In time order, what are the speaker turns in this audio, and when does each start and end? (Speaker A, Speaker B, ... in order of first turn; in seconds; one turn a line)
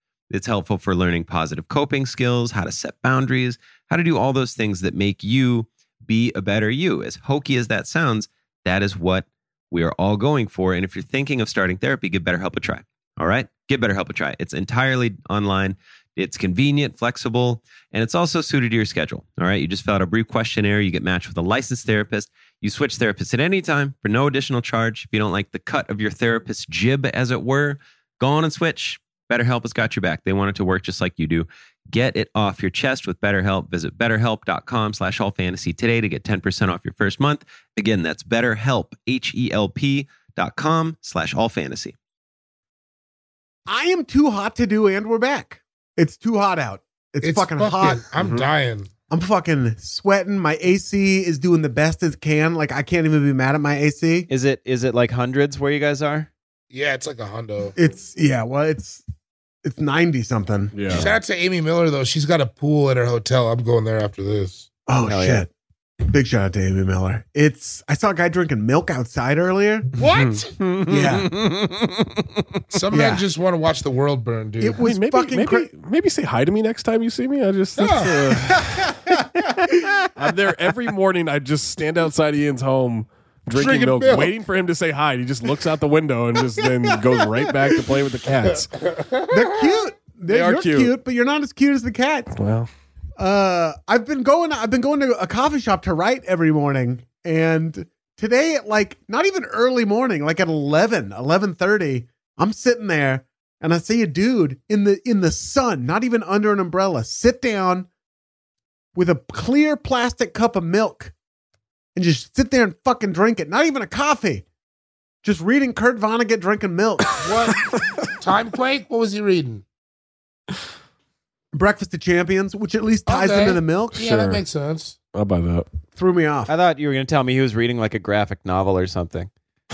Speaker A: 0.3-42.0
Speaker B: 43.7-48.1
Speaker C: 47.2-48.9
Speaker D: 48.2-48.5
Speaker B: 49.1-54.3
Speaker E: 54.3-56.3
Speaker C: 56.7-57.8
Speaker B: 57.8-59.0
Speaker B: 59.6-61.0
Speaker D: 60.7-61.1
Speaker C: 60.9-64.7
Speaker B: 64.9-65.5
Speaker E: 65.0-65.5
Speaker B: 66.1-70.0
Speaker C: 69.9-70.6
Speaker E: 70.2-72.4
Speaker B: 70.9-71.3
Speaker C: 72.7-74.8
Speaker B: 72.9-73.2
Speaker B: 74.6-75.7
Speaker D: 74.8-79.0
Speaker C: 77.8-78.3
Speaker B: 78.5-80.1
Speaker D: 80.2-88.7
Speaker C: 83.5-84.3
Speaker C: 88.7-89.8
Speaker B: 89.3-92.3
Speaker D: 90.3-90.9
Speaker D: 92.3-92.7
Speaker B: 93.2-107.9
Speaker B: 109.0-111.1
Speaker B: 112.0-114.5
Speaker B: 115.2-117.2
Speaker C: 117.2-119.7
Speaker B: 121.5-124.2
Speaker C: 123.1-125.0
Speaker D: 124.0-124.4
Speaker D: 125.1-125.7
Speaker B: 126.0-126.5
Speaker E: 126.5-129.3